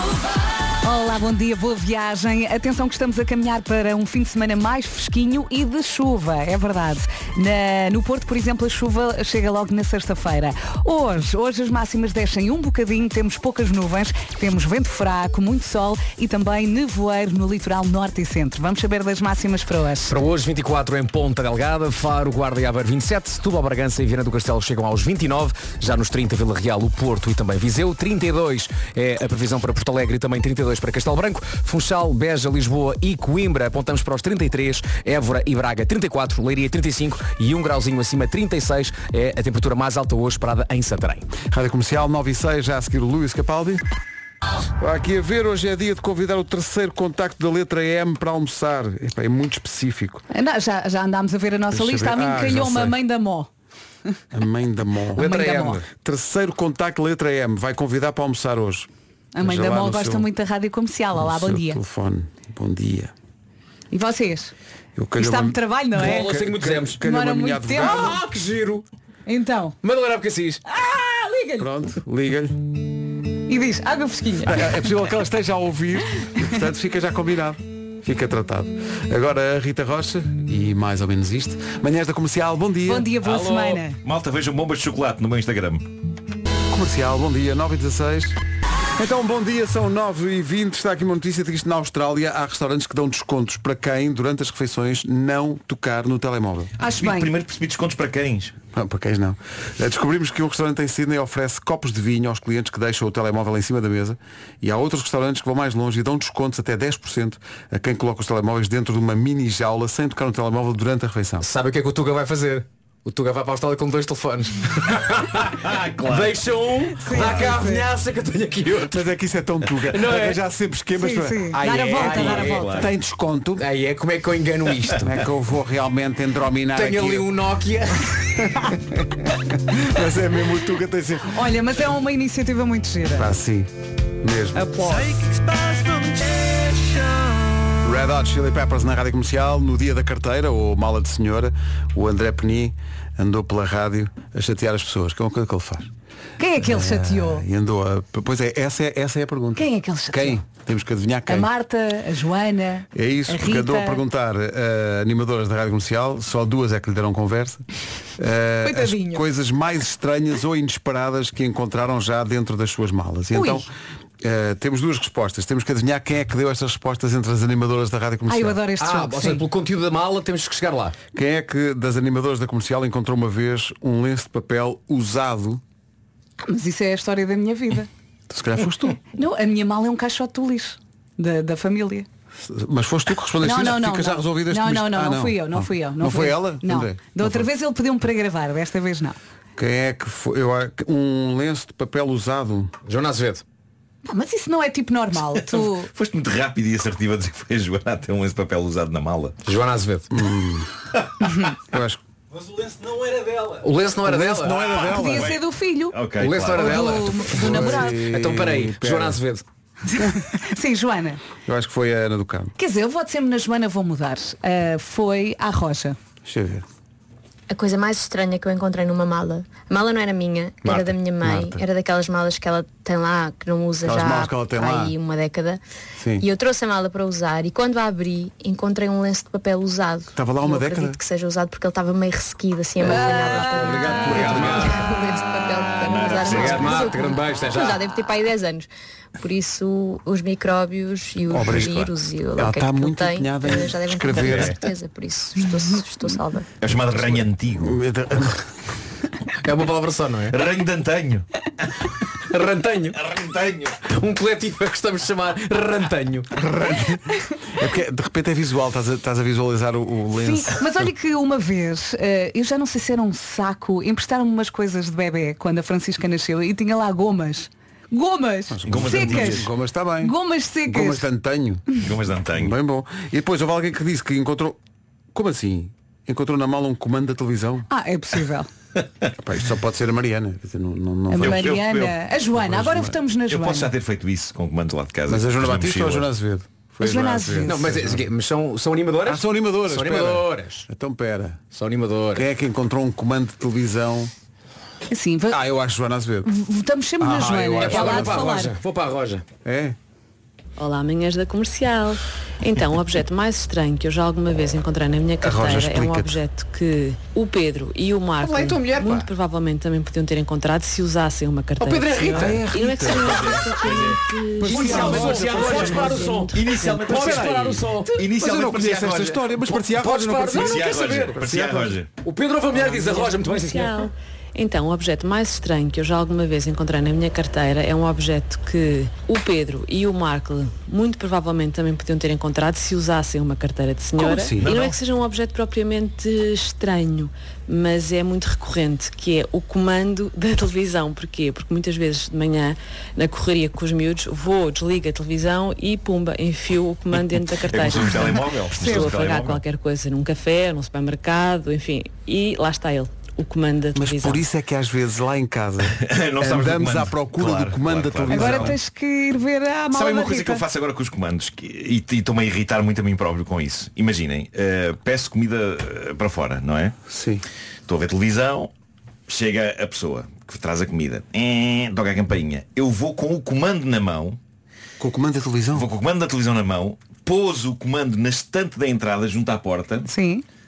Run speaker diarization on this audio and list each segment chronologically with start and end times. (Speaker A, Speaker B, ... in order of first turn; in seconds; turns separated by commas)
Speaker A: 0.8-20.2, Speaker B: 20.1-41.3, Speaker C: 41.5-43.8, Speaker C: 44.8-50.2, Speaker A: 50.3-53.5, Speaker C: 51.7-53.0, Speaker C: 54.3-55.4, Speaker A: 55.2-55.8, Speaker B: 55.2-55.9, Speaker C: 55.9-58.9, Speaker A: 59.3-61.8, Speaker C: 59.4-60.3, Speaker C: 61.2-63.1, Speaker A: 63.9-64.5, Speaker C: 65.0-68.2, Speaker A: 65.2-66.3, Speaker B: 66.0-67.0, Speaker A: 67.0-68.2, Speaker B: 67.8-68.8, Speaker A: 69.3-69.8, Speaker B: 69.8-70.6, Speaker A: 70.7-71.7, Speaker C: 71.6-72.6, Speaker A: 73.5-74.8, Speaker C: 74.5-83.1, Speaker A: 82.9-84.0, Speaker B: 83.2-83.7, Speaker D: 83.4-85.9, Speaker C: 86.7-88.4, Speaker C: 89.0-96.7, Speaker A: 96.8-97.3, Speaker D: 96.8-98.5, Speaker C: 98.7-111.5, Speaker B: 111.4-119.0, Speaker D: 115.5-116.4, Speaker A: 117.0-117.9, Speaker D: 117.1-117.6, Speaker C: 118.9-123.7, Speaker B: 119.8-120.4, Speaker A: 121.0-122.9, Speaker B: 122.0-122.7, Speaker D: 122.4-122.9, Speaker B: 123.6-125.1, Speaker C: 125.0-127.3, Speaker B: 126.8-128.5, Speaker C: 129.8-131.4, Speaker A: 131.3-133.3, Speaker C: 133.2-133.7, Speaker C: 134.2-135.1, Speaker A: 134.6-135.2, Speaker C: 137.8-145.9, Speaker A: 146.4-147.4, Speaker C: 146.6-151.5, Speaker A: 149.6-150.4, Speaker A: 151.3-154.0, Speaker C: 152.9-157.6, Speaker C: 158.2-163.7, Speaker A: 158.6-159.2, Speaker A: 163.3-163.7, Speaker C: 164.2-168.6, Speaker A: 168.3-169.4, Speaker B: 168.8-171.0, Speaker C: 171.1-175.6, Speaker A: 176.4-177.9, Speaker C: 178.3-179.0, Speaker A: 179.1-182.1, Speaker C: 182.4-187.5, Speaker A: 183.4-189.2, Speaker C: 189.6-192.7, Speaker B: 192.9-193.4, Speaker A: 194.1-195.9, Speaker D: 195.4-199.4, Speaker B: 199.4-200.1, Speaker C: 200.1-200.7, Speaker C: 201.7-202.0, Speaker B: 203.5-205.0, Speaker C: 204.0-205.3, Speaker A: 204.8-208.0, Speaker D: 205.1-207.1, Speaker B: 206.2-209.4, Speaker C: 207.4-209.2, Speaker A: 209.9-211.2, Speaker C: 211.5-212.6, Speaker A: 212.6-216.0, Speaker C: 216.2-216.7, Speaker E: 217.5-225.6, Speaker B: 220.6-220.9, Speaker C: 221.2-221.6, Speaker C: 223.8-224.9, Speaker C: 226.0-226.2, Speaker E: 226.2-238.7, Speaker C: 230.2-231.0, Speaker C: 232.8-234.8, Speaker A: 232.9-233.7, Speaker B: 233.8-234.8, Speaker D: 235.8-236.9, Speaker B: 236.0-237.8, Speaker E: 239.2-246.5, Speaker C: 241.3-241.7, Speaker D: 241.4-241.9, Speaker C: 242.4-244.6, Speaker D: 244.2-244.7, Speaker D: 246.6-247.7, Speaker C: 247.6-248.4, Speaker B: 249.4-250.4, Speaker D: 250.3-251.3, Speaker B: 252.3-253.0, Speaker D: 252.9-253.8, Speaker B: 253.8-256.3, Speaker C: 256.4-260.9, Speaker A: 260.2-269.5, Speaker C: 268.5-270.2, Speaker D: 268.7-269.5, Speaker A: 270.0-271.1, Speaker C: 270.7-271.6, Speaker D: 271.8-272.6, Speaker C: 272.4-274.6, Speaker C: 275.1-277.7, Speaker A: 277.7-278.5, Speaker C: 279.2-281.5, Speaker A: 281.1-283.7, Speaker D: 281.2-282.0, Speaker C: 282.4-283.0, Speaker D: 283.3-286.1, Speaker C: 285.1-288.0, Speaker A: 286.8-287.8, Speaker B: 287.4-290.6, Speaker C: 289.1-291.4, Speaker B: 291.5-292.2, Speaker C: 292.2-294.1, Speaker A: 294.9-295.4, Speaker C: 295.3-296.4, Speaker A: 296.3-298.5, Speaker C: 297.0-298.4, Speaker B: 297.6-299.2, Speaker C: 299.4-299.8, Speaker F: 300.6-316.8, Speaker C: 305.2-306.2, Speaker B: 308.2-309.1, Speaker B: 311.6-312.5, Speaker C: 312.1-313.4, Speaker D: 313.0-314.0, Speaker C: 314.4-316.2, Speaker B: 314.4-318.0, Speaker D: 314.7-319.3, Speaker C: 316.9-321.8, Speaker B: 319.5-321.2, Speaker D: 320.3-321.9, Speaker B: 322.0-323.9, Speaker F: 323.0-354.2, Speaker C: 334.0-334.5, Speaker D: 334.4-334.8, Speaker D: 346.9-349.4, Speaker A: 347.9-349.0, Speaker C: 353.8-358.6, Speaker D: 355.7-358.6, Speaker A: 358.1-360.4, Speaker D: 359.7-366.8, Speaker C: 366.9-367.2, Speaker D: 367.7-368.5, Speaker D: 369.1-374.2, Speaker C: 374.8-375.7, Speaker D: 375.5-379.9, Speaker A: 379.9-380.2